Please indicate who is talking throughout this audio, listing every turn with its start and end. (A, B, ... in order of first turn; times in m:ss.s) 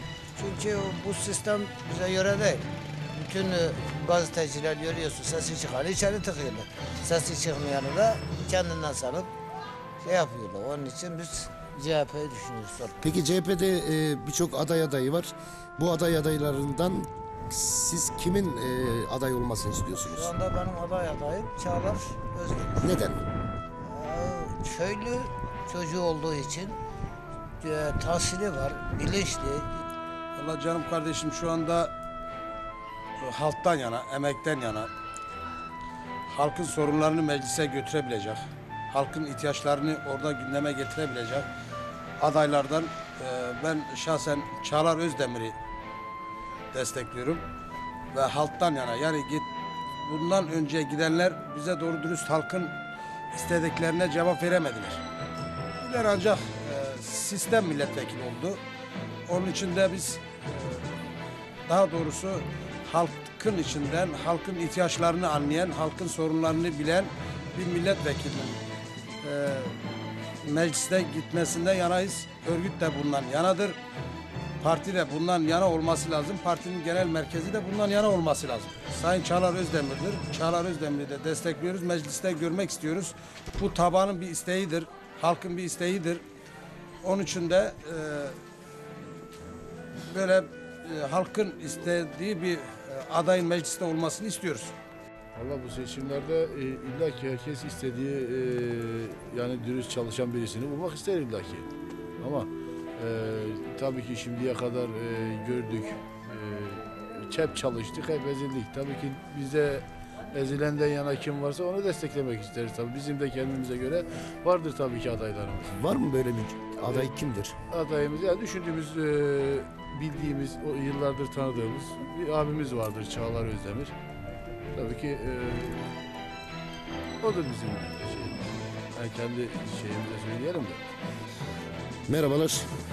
0:00.4-0:09.3 A
0:10.0-0:13.1 A
0:13.0-0:20.3 B
0:19.9-0:23.0 A
0:22.8-0:23.2 B
0:23.8-0:26.8 A
0:27.6-0:29.7 A
0:30.4-0:31.9 C
0:33.2-0:34.9 C
0:36.3-0:38.4 C
0:38.9-0:41.5 C
0:42.2-0:45.6 C
0:46.7-0:47.4 C
0:48.1-0:49.4 C
0:50.0-0:52.7 C
0:53.3-0:55.0 C
0:55.8-0:58.6 C
0:59.3-1:00.8 C
1:01.7-1:08.6 C
1:09.2-1:09.8 C
1:10.4-1:13.8 C
1:14.6-1:26.2 C
1:27.0-1:28.3 C
1:30.1-1:34.7 C
1:35.4-1:41.7 D
1:42.2-1:55.8 D
1:55.8-1:57.5 B
1:56.8-1:57.1 D
1:57.7-2:03.9 D
2:04.7-2:05.8 D
2:07.2-2:10.8 D
2:12.1-2:12.6 B